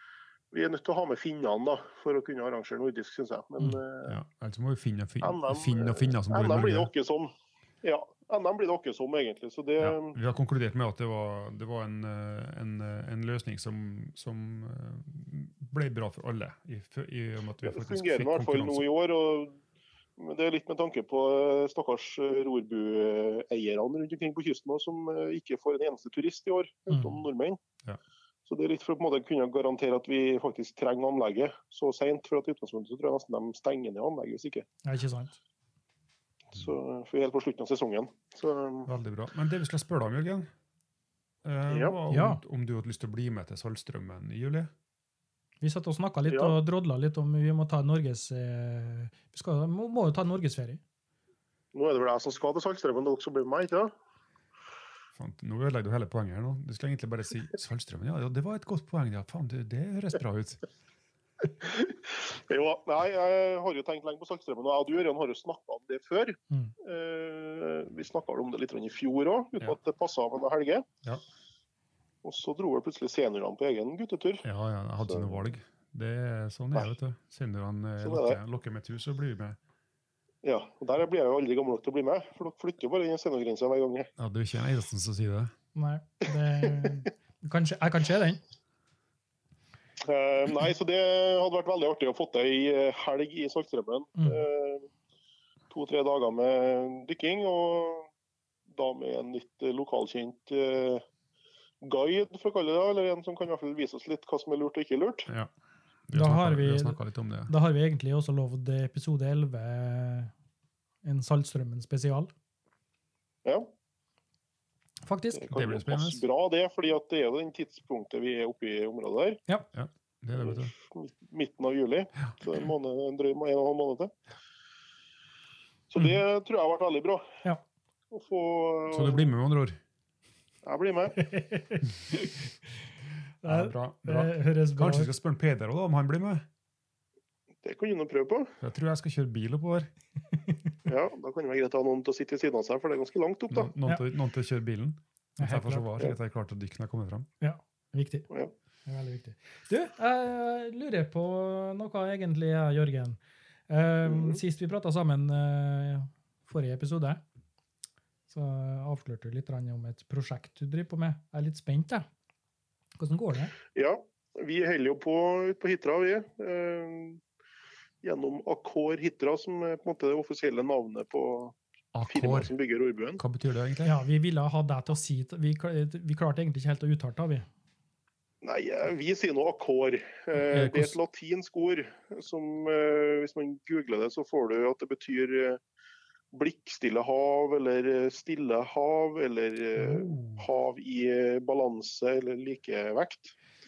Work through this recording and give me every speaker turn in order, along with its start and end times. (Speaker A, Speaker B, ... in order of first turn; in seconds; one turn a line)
Speaker A: 0.5-4.2
Speaker B: 4.1-6.9
Speaker A: 5.2-10.2
Speaker B: 9.8-18.9
Speaker A: 17.6-19.6
Speaker A: 20.2-27.6
Speaker C: 26.9-27.2
Speaker A: 28.5-34.7
Speaker C: 34.8-35.4
Speaker A: 36.5-38.9
Speaker B: 38.9-40.5
Speaker B: 41.4-44.7
Speaker A: 41.7-42.0
Speaker C: 42.1-42.4
Speaker C: 45.6-50.8
Speaker A: 46.3-46.6
Speaker A: 51.7-53.9
Speaker B: 55.1-60.6
Speaker A: 61.4-70.9
Speaker A: 72.2-74.5
Speaker B: 74.4-79.6
Speaker A: 75.0-75.5
Speaker A: 78.0-78.4
Speaker A: 80.4-84.1
Speaker B: 84.2-85.5
Speaker C: 85.8-88.4
Speaker A: 90.0-94.9
Speaker C: 94.2-94.4
Speaker A: 95.7-98.1
Speaker A: 98.7-101.0
Speaker A: 101.8-105.3
Speaker B: 106.1-107.5
Speaker C: 106.1-110.3
Speaker C: 111.0-112.3
Speaker A: 113.5-113.7
Speaker C: 115.0-115.5
Speaker A: 115.3-119.4
Speaker B: 115.5-116.2
Speaker B: 119.7-120.7
Speaker A: 120.3-124.1
Speaker A: 125.9-127.3
Speaker A: 128.1-129.3
Speaker B: 128.9-129.8
Speaker A: 130.6-131.3
Speaker C: 131.2-132.3
Speaker C: 133.4-135.1
Speaker B: 133.4-136.4
Speaker A: 137.6-138.6
Speaker B: 138.6-139.9
Speaker C: 140.3-140.6
Speaker A: 140.8-143.7
Speaker B: 143.5-147.3
Speaker C: 145.4-145.9
Speaker C: 147.4-148.3
Speaker C: 148.9-157.2
Speaker A: 154.1-154.4
Speaker C: 158.3-162.1
Speaker C: 163.0-163.6
Speaker A: 163.7-167.2
Speaker A: 168.0-171.6
Speaker B: 171.9-172.5
Speaker A: 172.1-173.2
Speaker B: 173.2-173.9
Speaker C: 173.8-177.5
Speaker A: 178.4-185.6
Speaker B: 180.3-181.0
Speaker A: 186.3-193.4
Speaker B: 189.8-190.5